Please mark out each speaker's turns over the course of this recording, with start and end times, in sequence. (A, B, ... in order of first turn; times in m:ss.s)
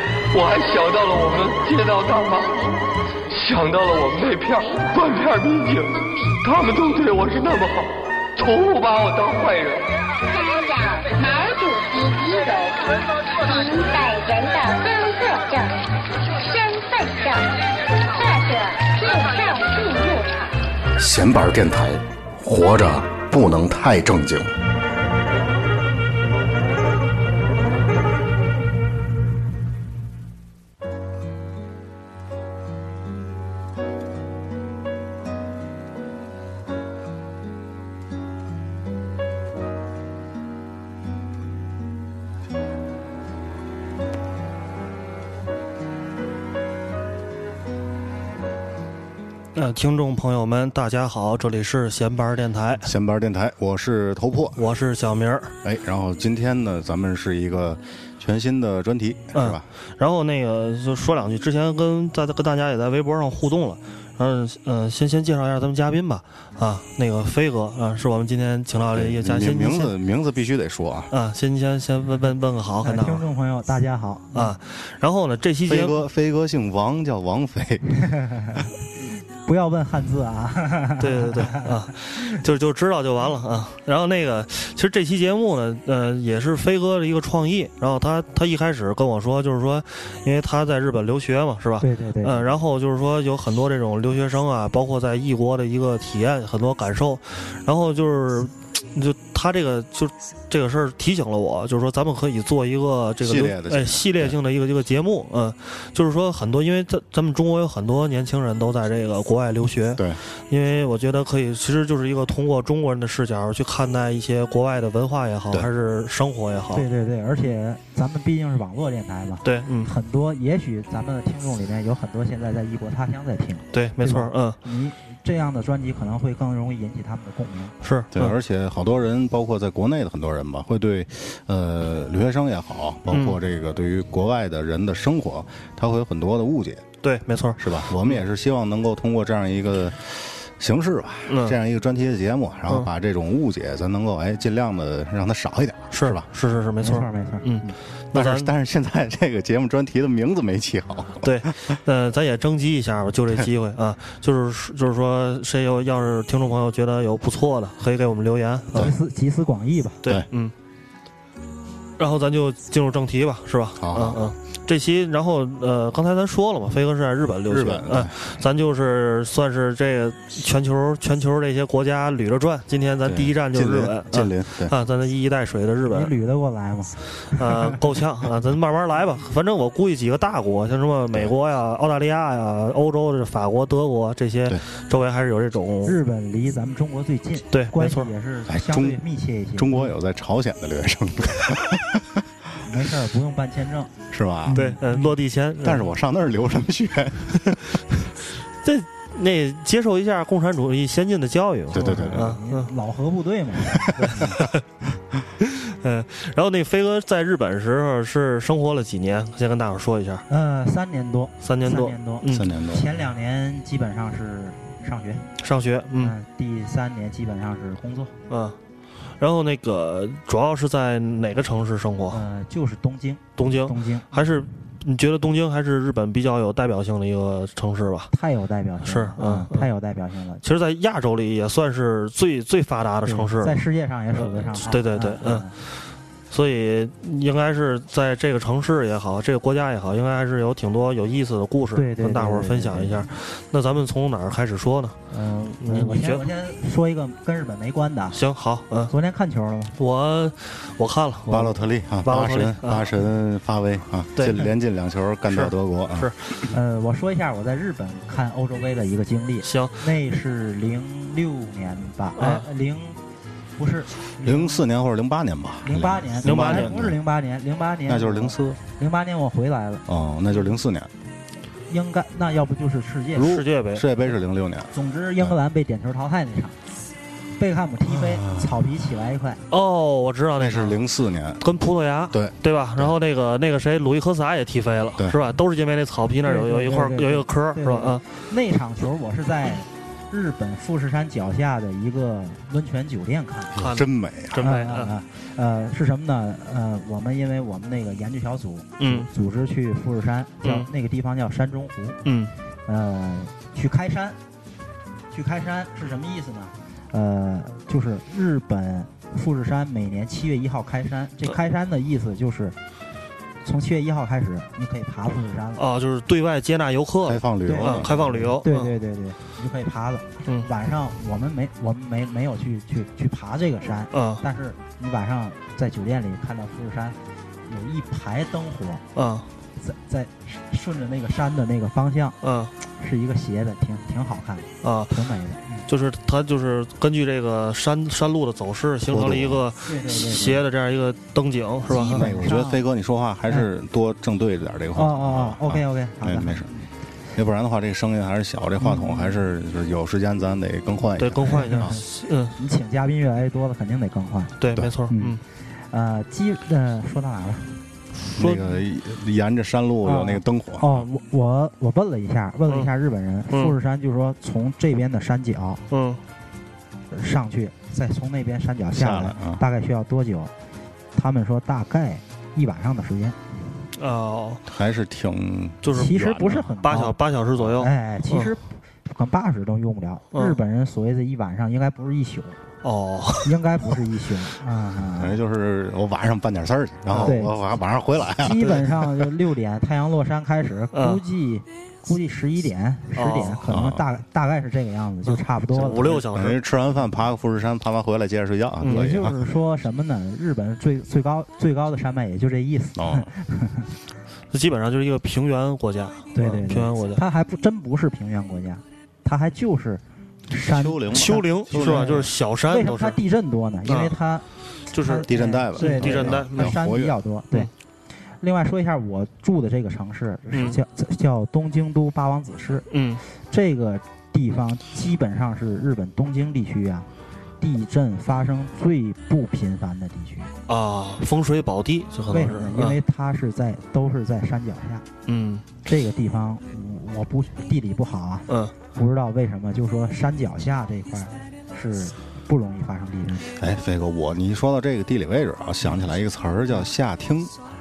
0:00.3-0:02.6 A
0:03.3-0:09.8 A
0:10.3-0:15.8 B
0:16.4-0:17.5 B
0:18.1-0:20.6 B
0:21.0-0:24.6 C
0:49.6-0:52.9 D
0:52.8-0:54.6 C
0:54.6-0:55.5 D
0:55.6-0:59.6 C
0:59.4-1:09.9 D
1:08.9-1:11.1 C
1:11.1-1:13.3 D
1:12.8-1:14.6 E
1:14.3-1:16.0 D
1:15.7-1:17.9 C
1:18.1-1:18.6 E
1:19.4-1:21.9 E
1:21.0-1:56.8 D
1:31.8-1:32.5 E
1:43.2-1:44.4 C
1:50.0-1:50.2 C
1:56.7-2:07.8 E
1:59.4-1:59.9 D
2:03.7-2:04.6 D
2:07.8-2:08.4 D
2:08.1-2:16.8 C
2:13.1-2:13.4 D
2:17.0-2:18.2 D
2:17.6-2:26.3 C
2:21.3-2:21.6 D
2:25.9-2:28.5 D
2:26.8-2:27.5 E
2:28.1-2:31.8 C
2:31.2-2:38.9 D
2:38.7-2:40.0 E
2:40.0-2:40.5 D
2:42.0-2:56.1 D
2:43.8-2:44.3 C
2:47.5-2:48.2 C
2:53.0-2:54.8 C
2:55.9-2:57.8 E
2:57.3-3:06.0 D
3:05.8-3:09.9 E
3:07.5-3:08.1 D
3:08.5-3:09.0 C
3:09.6-3:12.2 C
3:12.6-3:13.9 E
3:14.1-3:14.6 C
3:14.5-3:15.1 E
3:14.5-3:15.9 D
3:15.6-3:17.8 C
3:18.6-3:22.7 D
3:21.7-3:22.4 C
3:21.8-3:24.3 E
3:24.0-3:24.6 D
3:24.1-3:24.4 C
3:25.4-3:30.3 D
3:30.3-3:35.3 E
3:31.4-3:32.5 D
3:32.3-3:32.9 C
3:35.4-3:36.2 D
3:36.0-3:38.1 E
3:38.3-3:38.6 D
3:39.2-3:42.2 D
3:42.1-3:44.1 E
3:43.4-3:48.1 D
3:48.1-3:50.4 E
3:48.8-3:49.7 D
3:50.4-3:55.7 D
3:53.1-3:55.5 E
3:56.3-4:05.0 D
4:01.8-4:03.1 E
4:05.1-4:08.2 E
4:05.6-4:06.2 D
4:08.1-4:08.9 D
4:08.9-4:09.8 E
4:09.8-4:12.9 D
4:11.3-4:16.5 C
4:15.3-4:16.2 D
4:16.5-4:23.0 E
4:19.4-4:19.9 D
4:22.2-4:22.5 D
4:23.6-4:24.7 E
4:24.2-4:27.0 C
4:25.6-4:29.8 E
4:26.2-4:26.8 D
4:27.9-4:28.6 C
4:29.9-4:30.9 C
4:31.7-4:33.4 E
4:33.2-4:33.9 D
4:33.7-4:35.4 C
4:34.7-4:36.6 E
4:37.4-4:39.4 E
4:37.9-4:38.5 C
4:39.5-4:40.8 D
4:40.4-4:41.4 C
4:41.4-4:48.1 D
4:42.1-4:42.9 C
4:46.2-4:53.6 E
4:53.5-4:54.5 C
4:53.6-4:54.9 D
4:54.4-5:02.0 E
4:58.8-4:59.1 D
5:00.4-5:00.7 D
5:02.0-5:02.3 D
5:02.7-5:04.2 E
5:05.1-5:12.6 E
5:13.4-5:15.6 E
5:15.5-5:18.7 D
5:17.1-5:18.3 C
5:17.5-5:27.0 E
5:23.9-5:24.2 D
5:27.5-5:28.8 E
5:29.0-5:29.3 D
5:29.6-5:32.2 E
5:32.2-5:32.5 D
5:32.8-5:35.6 E
5:34.6-5:34.9 D
5:35.7-5:42.1 D
5:38.8-5:39.4 C
5:39.6-5:40.4 E
5:41.7-5:42.6 E
5:41.7-5:46.5 C
5:44.8-5:46.6 E
5:47.1-5:51.8 C
5:48.6-5:49.2 E
5:51.0-5:52.4 D
5:51.5-5:51.8 E
5:52.4-5:54.4 E
5:54.4-5:55.2 D
5:54.9-5:55.2 E
5:55.7-5:57.6 E
5:58.0-6:00.8 C
5:58.1-5:58.4 D
5:59.8-6:05.6 E
6:05.7-6:06.0 D
6:06.9-6:10.3 E
6:08.7-6:09.4 C
6:11.0-6:13.2 E
6:13.8-6:14.4 D
6:14.5-6:16.4 C
6:15.6-6:18.3 D
6:15.8-6:17.0 E
6:17.6-6:22.4 E
6:20.1-6:20.4 D
6:22.6-6:23.4 D
6:23.2-6:25.2 E
6:25.0-6:28.8 C
6:26.9-6:27.2 D
6:27.0-6:27.3 E
6:28.2-6:36.0 E
6:30.7-6:31.0 D
6:33.0-6:33.4 D
6:33.5-6:33.8 C
6:35.0-6:36.4 D
6:36.1-6:39.2 C
6:38.6-6:39.1 D
6:38.6-6:43.7 E
6:42.8-6:43.1 C
6:44.3-6:47.0 D
6:46.1-6:57.5 E
6:50.4-6:52.1 C
6:50.9-6:53.0 D
6:53.7-6:54.0 D
6:54.7-6:56.6 D
6:55.1-6:57.0 C
6:58.2-7:02.7 E
7:02.7-7:03.0 D
7:03.3-7:06.9 E
7:07.4-7:10.3 E
7:10.5-7:12.8 D
7:12.1-7:14.9 E
7:15.1-7:15.4 D
7:15.6-7:23.3 E
7:18.3-7:18.5 D
7:23.3-7:27.4 C